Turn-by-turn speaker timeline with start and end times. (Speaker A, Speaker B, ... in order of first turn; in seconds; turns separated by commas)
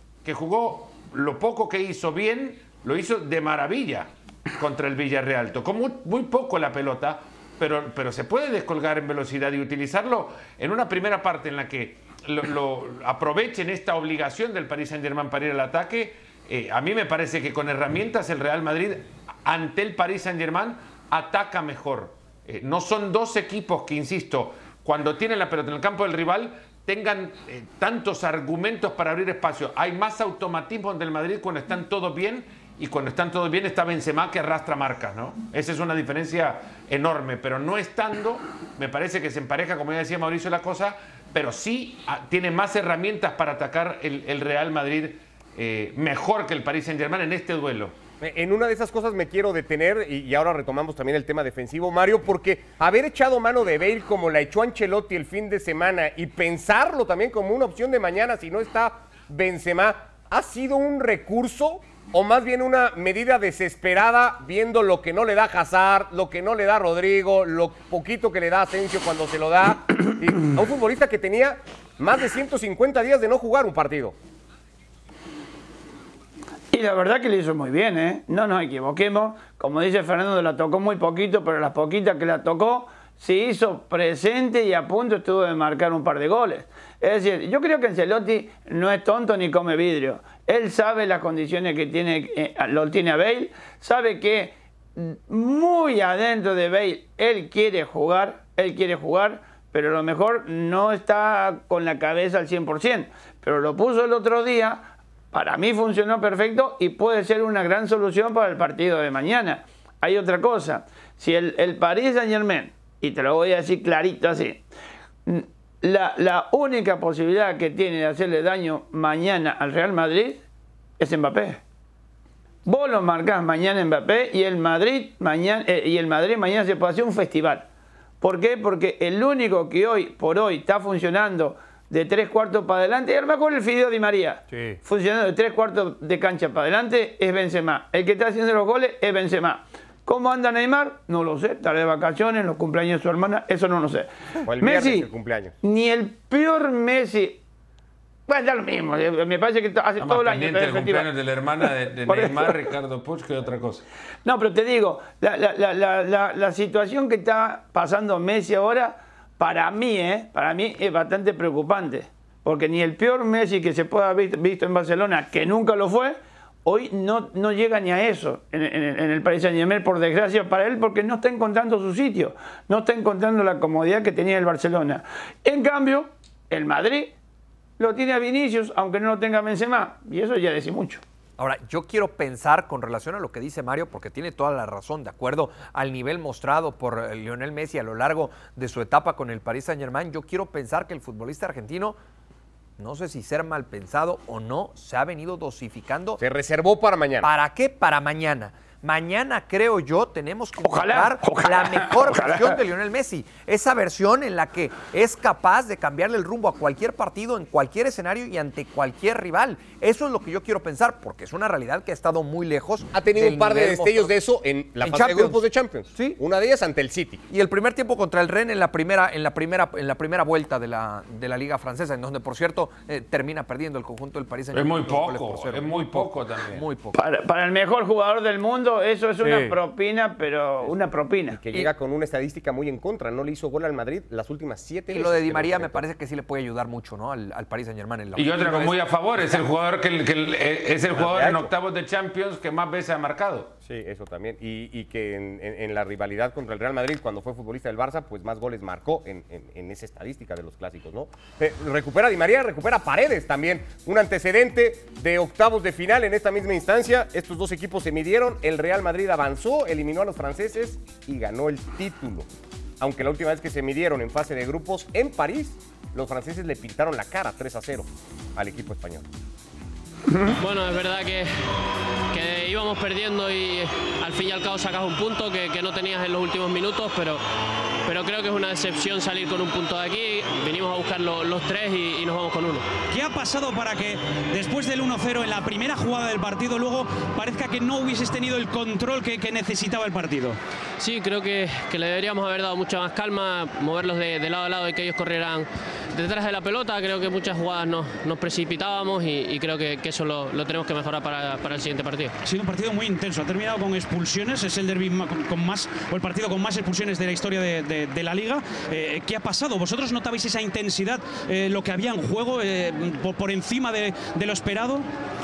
Speaker A: 0.2-48.0, Speaker B: 48.2-74.2, Speaker C: 76.7-114.6, Speaker C: 115.2-120.4, Speaker C: 121.0-121.6, Speaker C: 122.6-127.7, Speaker C: 128.2-145.1, Speaker D: 134.5-134.8, Speaker B: 144.4-145.5, Speaker C: 145.6-147.4, Speaker C: 148.3-151.1, Speaker A: 150.0-153.8, Speaker C: 152.1-152.7, Speaker C: 154.2-177.1, Speaker C: 177.8-181.0, Speaker D: 181.4-192.0, Speaker D: 192.8-196.2, Speaker B: 196.2-197.3, Speaker D: 197.2-214.1, Speaker C: 200.6-202.6, Speaker B: 212.9-217.2, Speaker D: 214.8-215.4, Speaker D: 215.9-216.2, Speaker D: 217.3-227.0, Speaker A: 224.5-226.6, Speaker C: 226.9-231.4, Speaker D: 229.2-229.6, Speaker B: 231.3-235.8, Speaker D: 234.9-238.8, Speaker A: 238.2-243.5, Speaker B: 240.9-241.5, Speaker B: 243.6-262.3, Speaker B: 262.8-269.1, Speaker E: 270.4-271.4, Speaker E: 272.1-277.2, Speaker E: 277.9-282.7, Speaker F: 282.9-290.4, Speaker E: 290.8-302.1, Speaker F: 302.2-314.9